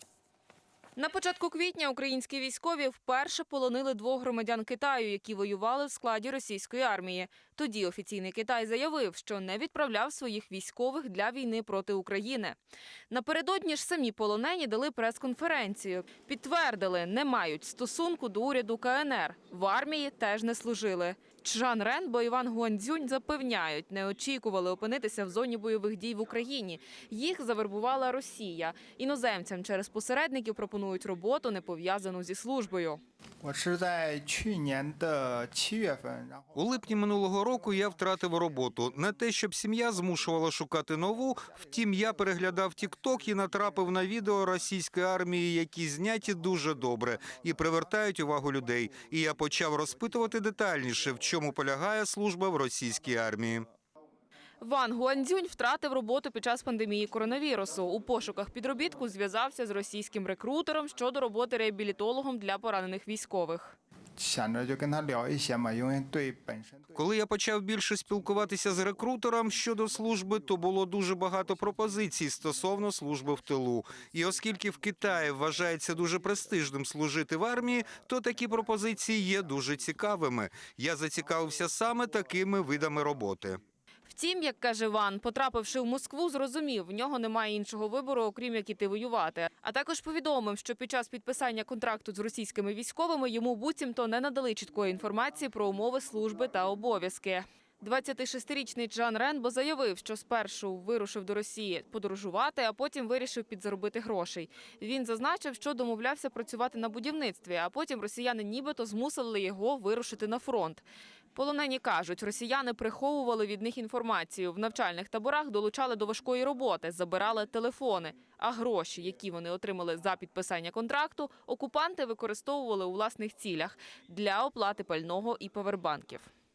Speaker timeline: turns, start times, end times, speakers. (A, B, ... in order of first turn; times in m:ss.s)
0:01.0-0:12.6 A
0:13.1-0:33.0 A
0:33.4-0:45.4 B
0:36.6-0:53.7 C
0:46.1-0:52.0 B
0:54.6-1:03.8 A
1:04.2-1:07.1 B
1:07.0-1:23.6 C
1:08.2-1:20.3 B
1:21.1-1:23.3 B
1:24.1-1:50.8 A
1:51.4-2:06.3 A